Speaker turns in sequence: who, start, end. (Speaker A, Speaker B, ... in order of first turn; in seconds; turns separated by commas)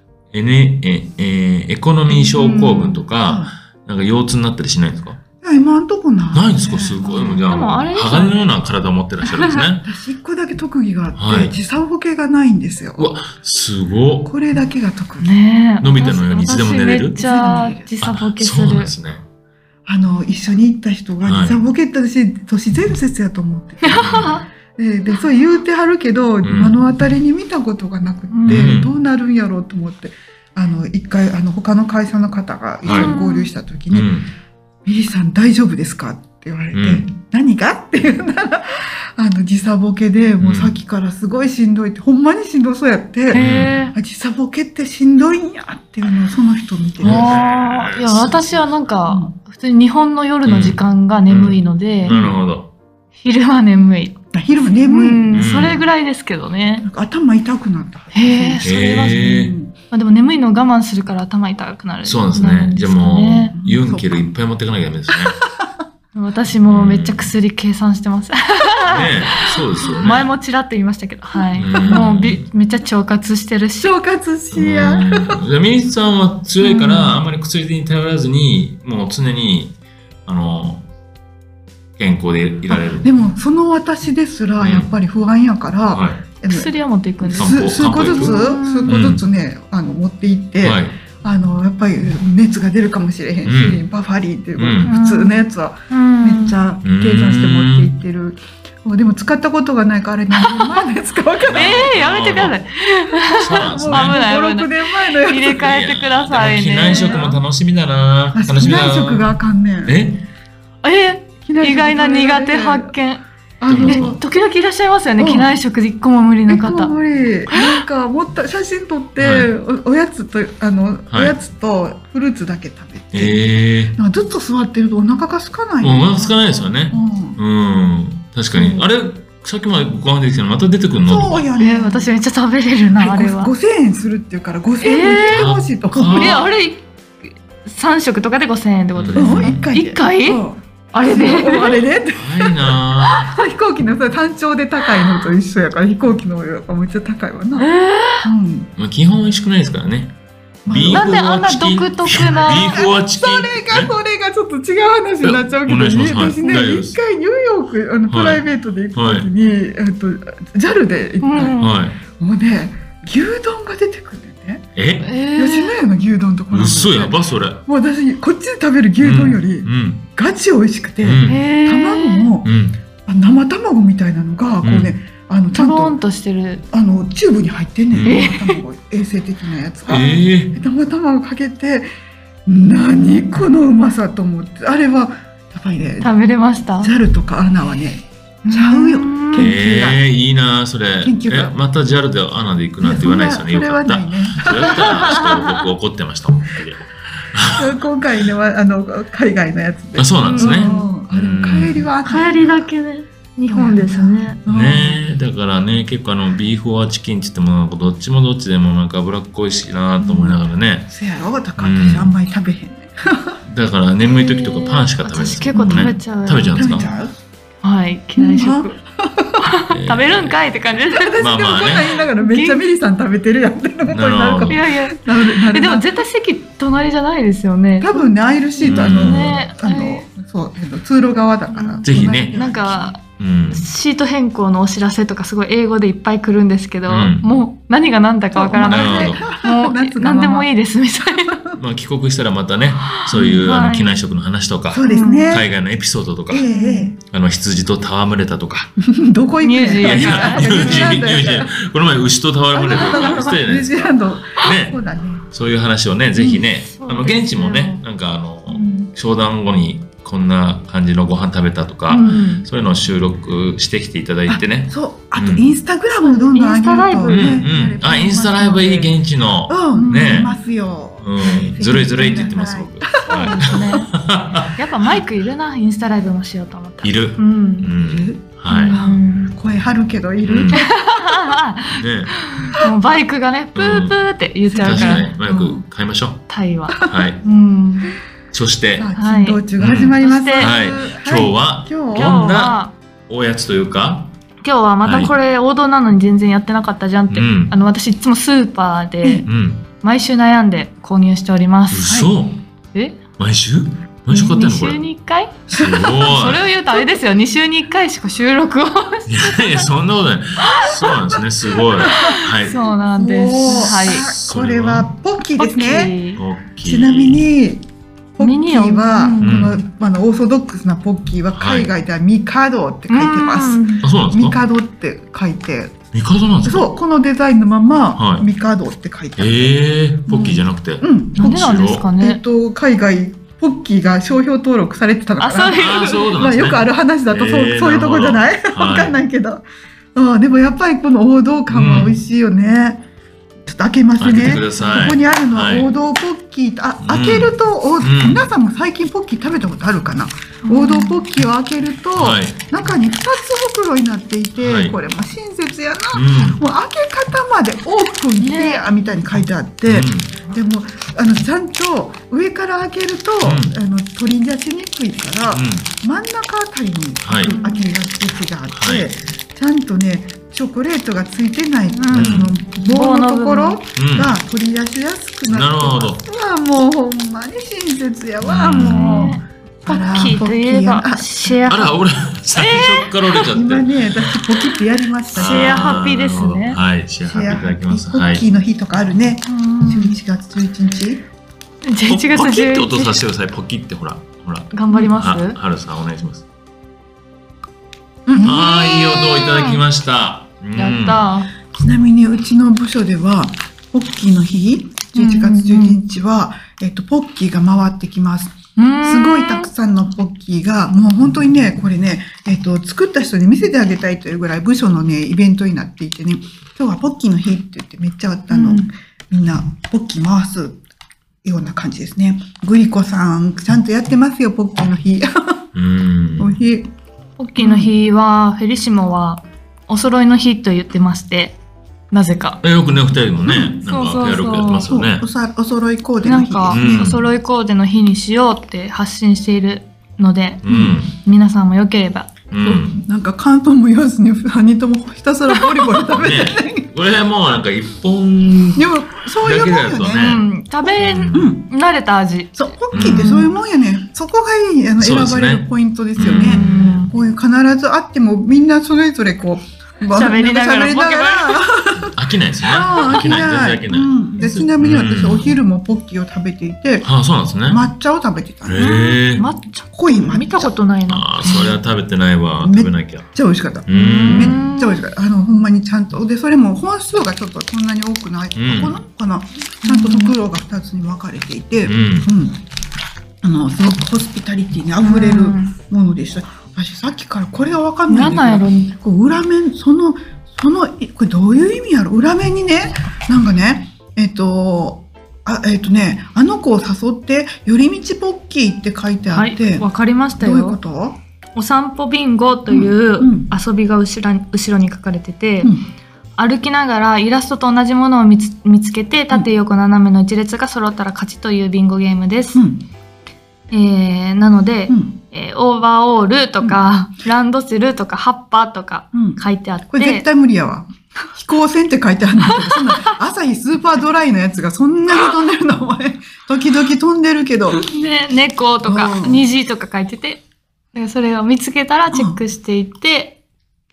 Speaker A: 0.3-5.2, Speaker B: 2.1-3.0, Speaker C: 3.2-3.5, Speaker C: 5.4-7.5, Speaker A: 6.3-9.8, Speaker B: 7.0-8.5, Speaker B: 9.3-9.6, Speaker C: 9.8-13.2, Speaker A: 11.2-11.6, Speaker A: 13.0-14.3, Speaker C: 14.2-15.3, Speaker B: 15.2-18.9, Speaker A: 15.8-17.2, Speaker C: 16.0-17.9, Speaker A: 18.0-19.2, Speaker C: 19.9-34.1, Speaker A: 21.2-21.6, Speaker B: 23.8-24.4, Speaker A: 23.9-24.4, Speaker A: 26.4-26.8, Speaker B: 28.3-28.8, Speaker A: 28.4-28.9, Speaker A: 32.8-33.1, Speaker B: 32.9-33.5, Speaker A: 33.9-34.3, Speaker C: 34.9-47.4, Speaker A: 36.7-37.1, Speaker A: 40.4-40.7, Speaker B: 43.3-43.9, Speaker A: 43.3-43.7, Speaker A: 47.0-48.9, Speaker B: 47.0-52.1, Speaker C: 49.1-49.3, Speaker A: 50.5-52.7, Speaker C: 52.1-52.4, Speaker B: 53.2-54.1, Speaker C: 54.3-55.8, Speaker B: 54.8-56.9, Speaker A: 55.3-55.8, Speaker C: 56.8-59.7, Speaker B: 58.1-59.3, Speaker A: 58.6-59.5, Speaker B: 59.9-63.5, Speaker A: 62.0-65.4, Speaker C: 63.5-64.4, Speaker B: 66.1-74.0, Speaker A: 66.7-67.3, Speaker A: 68.8-70.3, Speaker C: 71.3-72.1, Speaker A: 71.6-72.4, Speaker C: 73.8-75.4, Speaker A: 74.5-79.7, Speaker B: 76.6-77.2, Speaker A: 80.2-80.9, Speaker A: 82.0-83.1, Speaker C: 82.7-101.9, Speaker A: 84.6-84.9, Speaker A: 85.9-86.2, Speaker B: 86.5-89.0, Speaker A: 87.4-89.2, Speaker A: 90.6-91.0, Speaker A: 93.4-93.8, Speaker A: 94.6-94.9, Speaker B: 94.8-96.6, Speaker A: 96.8-97.9, Speaker B: 100.3-100.8, Speaker A: 101.4-102.6, Speaker B: 101.5-107.4, Speaker A: 103.3-104.2, Speaker C: 103.6-105.6, Speaker A: 105.5-110.2, Speaker C: 106.8-107.2, Speaker C: 108.3-110.0, Speaker B: 110.8-113.2, Speaker C: 111.4-112.9, Speaker C: 113.6-114.2, Speaker A: 113.7-114.2, Speaker B: 113.8-116.9, Speaker C: 115.2-115.5, Speaker C: 116.5-127.4, Speaker B: 117.5-117.8, Speaker A: 119.2-119.5, Speaker A: 121.1-121.4, Speaker A: 123.1-124.0, Speaker A: 125.8-131.4, Speaker C: 128.5-128.9, Speaker C: 131.0-132.1, Speaker B: 131.6-133.5, Speaker C: 133.0-136.4, Speaker B: 134.8-135.5, Speaker A: 135.3-136.5, Speaker B: 136.1-136.9, Speaker B: 137.6-141.8, Speaker A: 138.9-139.7, Speaker C: 139.1-147.7, Speaker A: 142.1-143.3, Speaker B: 147.6-148.3, Speaker C: 148.2-148.7, Speaker A: 148.8-153.9, Speaker C: 150.7-151.2, Speaker B: 150.9-152.8, Speaker C: 152.1-161.6, Speaker A: 155.2-157.0, Speaker B: 156.4-156.7, Speaker A: 158.1-159.3, Speaker B: 161.2-161.8, Speaker A: 161.6-162.0, Speaker C: 162.2-164.6, Speaker A: 164.8-165.1, Speaker B: 165.0-165.8, Speaker C: 165.3-172.5, Speaker A: 166.5-167.6, Speaker A: 169.0-170.0, Speaker A: 171.0-171.4, Speaker B: 171.2-172.3, Speaker A: 172.4-172.8, Speaker C: 173.1-176.0, Speaker A: 174.6-174.9, Speaker B: 175.5-176.6, Speaker C: 176.7-181.9, Speaker A: 177.9-178.2, Speaker B: 178.1-178.6, Speaker A: 179.8-180.6, Speaker C: 182.4-186.1, Speaker B: 186.0-186.9, Speaker C: 186.8-190.0, Speaker B: 188.4-189.5, Speaker A: 189.3-197.7, Speaker C: 191.0-191.6, Speaker C: 192.8-195.3, Speaker B: 194.5-195.5, Speaker C: 197.6-202.7, Speaker A: 200.0-201.8, Speaker B: 200.3-200.9, Speaker B: 202.0-204.4, Speaker C: 203.5-205.0, Speaker A: 204.5-210.9, Speaker C: 210.0-213.4, Speaker A: 211.6-212.2, Speaker A: 213.4-216.9, Speaker B: 214.0-216.9, Speaker C: 215.5-215.9, Speaker C: 216.5-217.1, Speaker B: 217.6-218.7, Speaker C: 218.2-219.4, Speaker B: 219.4-221.1, Speaker A: 219.7-220.4, Speaker C: 220.9-225.9, Speaker A: 221.2-222.0, Speaker B: 222.0-222.6, Speaker A: 223.9-224.6, Speaker B: 224.4-230.1, Speaker C: 227.8-232.9, Speaker A: 228.6-229.5, Speaker B: 231.5-241.3, Speaker A: 231.8-232.4, Speaker A: 233.2-233.7, Speaker A: 236.9-237.2, Speaker C: 238.3-240.5, Speaker A: 238.6-239.2, Speaker C: 241.3-241.6, Speaker A: 241.6-246.4, Speaker B: 242.9-244.0, Speaker C: 243.1-243.5, Speaker C: 244.7-245.5, Speaker B: 244.8-245.4, Speaker C: 246.3-247.0, Speaker B: 246.4-246.9, Speaker A: 247.1-248.7, Speaker C: 248.8-251.5, Speaker B: 249.4-251.0, Speaker A: 249.8-265.5, Speaker C: 252.5-255.2, Speaker B: 252.7-253.3, Speaker C: 256.1-256.4, Speaker B: 256.7-257.8, Speaker B: 258.5-258.9, Speaker B: 261.9-262.4, Speaker C: 261.9-262.2, Speaker C: 264.3-272.9, Speaker B: 266.0-267.4, Speaker A: 267.1-270.3, Speaker B: 269.8-270.3, Speaker A: 271.0-274.6, Speaker B: 273.0-273.9, Speaker B: 274.6-277.7, Speaker A: 276.8-278.8, Speaker C: 277.8-281.2, Speaker B: 278.5-279.3, Speaker A: 280.2-280.6, Speaker B: 280.5-285.1, Speaker A: 281.7-282.1, Speaker A: 283.5-284.0, Speaker C: 284.4-285.6, Speaker A: 284.6-286.2, Speaker B: 286.3-287.9, Speaker A: 286.8-287.2, Speaker A: 288.3-288.9, Speaker C: 288.7-292.2, Speaker B: 288.9-289.4, Speaker A: 289.6-294.1, Speaker B: 290.0-290.6, Speaker B: 291.9-292.7, Speaker B: 294.4-299.3, Speaker A: 294.8-295.1, Speaker A: 297.1-297.5, Speaker A: 299.2-299.6, Speaker B: 299.8-302.0, Speaker A: 301.7-302.4, Speaker B: 302.7-303.0, Speaker A: 303.2-304.9, Speaker B: 304.1-305.3, Speaker A: 305.5-306.5, Speaker C: 305.6-306.1, Speaker B: 306.0-309.7, Speaker A: 309.1-312.7, Speaker B: 310.4-310.9, Speaker C: 311.8-312.1, Speaker B: 311.8-314.1, Speaker C: 312.9-315.9, Speaker A: 313.4-314.9, Speaker B: 315.4-316.2, Speaker A: 316.1-317.2, Speaker C: 316.6-325.8, Speaker B: 318.2-319.5, Speaker A: 319.2-319.6, Speaker A: 321.3-321.7, Speaker B: 322.9-323.8, Speaker A: 323.8-324.4, Speaker A: 325.9-326.7, Speaker C: 326.4-329.6, Speaker A: 327.9-328.3, Speaker A: 329.2-331.8, Speaker C: 330.1-339.4, Speaker B: 331.1-332.2, Speaker B: 335.2-336.1, Speaker A: 335.5-339.0, Speaker C: 339.9-342.8, Speaker A: 341.5-342.0, Speaker C: 343.4-381.4, Speaker A: 344.0-345.7, Speaker A: 346.8-348.2, Speaker B: 350.4-351.0, Speaker A: 351.9-352.4, Speaker A: 354.4-354.8, Speaker A: 355.9-356.4, Speaker B: 358.2-358.7, Speaker A: 359.6-360.1, Speaker A: 363.2-363.5, Speaker A: 365.3-365.7, Speaker A: 367.0-367.3, Speaker B: 367.2-367.7, Speaker A: 368.5-368.9, Speaker B: 371.7-373.6, Speaker A: 371.9-372.3, Speaker A: 373.8-374.2, Speaker A: 375.3-376.0, Speaker A: 378.2-379.2, Speaker B: 378.6-381.8, Speaker A: 381.4-384.6, Speaker B: 382.3-383.1, Speaker C: 383.3-385.8, Speaker B: 385.1-386.6, Speaker A: 385.1-388.2, Speaker C: 387.0-391.0, Speaker B: 389.2-389.9, Speaker B: 391.6-393.0, Speaker A: 391.9-396.2, Speaker B: 394.5-395.4, Speaker C: 394.7-395.0, Speaker C: 398.1-398.5, Speaker B: 398.1-399.6, Speaker A: 398.2-401.1, Speaker B: 400.6-401.3, Speaker C: 401.5-420.6, Speaker B: 404.9-405.8, Speaker B: 408.6-409.5, Speaker B: 418.3-418.7, Speaker C: 421.2-425.4, Speaker A: 425.5-426.4, Speaker C: 426.2-426.7, Speaker B: 427.2-431.4, Speaker C: 427.4-427.7, Speaker B: 431.9-432.4, Speaker A: 432.4-435.1, Speaker C: 433.2-433.6, Speaker B: 433.6-434.7, Speaker C: 434.6-436.9, Speaker B: 436.0-440.4, Speaker A: 436.5-437.1, Speaker A: 440.4-441.0, Speaker C: 440.4-440.8, Speaker B: 441.0-442.1, Speaker A: 442.3-442.8, Speaker C: 442.4-446.6, Speaker B: 445.4-445.7, Speaker A: 445.9-450.2, Speaker C: 448.6-451.4, Speaker B: 450.0-453.3, Speaker A: 450.8-451.3, Speaker C: 452.4-468.7, Speaker A: 452.7-453.1, Speaker A: 454.8-456.8, Speaker B: 456.0-456.9, Speaker B: 459.9-461.4, Speaker A: 461.9-465.4, Speaker B: 462.6-463.2, Speaker A: 466.8-467.6, Speaker A: 468.4-469.2, Speaker B: 468.6-471.1, Speaker C: 469.7-470.6, Speaker A: 470.9-473.1, Speaker C: 471.2-471.6, Speaker C: 472.4-482.4, Speaker A: 473.6-474.4, Speaker B: 473.7-474.8, Speaker A: 478.4-478.8, Speaker B: 479.6-480.1, Speaker A: 481.6-482.1, Speaker C: 483.2-499.6, Speaker B: 484.8-485.5, Speaker B: 487.9-488.8, Speaker B: 499.1-500.6, Speaker C: 500.2-501.0, Speaker B: 501.3-505.5, Speaker C: 502.5-503.3, Speaker B: 506.2-512.4, Speaker C: 512.3-512.6, Speaker B: 513.5-520.0, Speaker C: 514.7-515.0, Speaker C: 518.9-519.2, Speaker C: 519.7-527.6, Speaker B: 522.2-522.9, Speaker B: 527.5-530.2, Speaker C: 528.6-529.2, Speaker B: 530.7-533.1, Speaker C: 531.9-532.2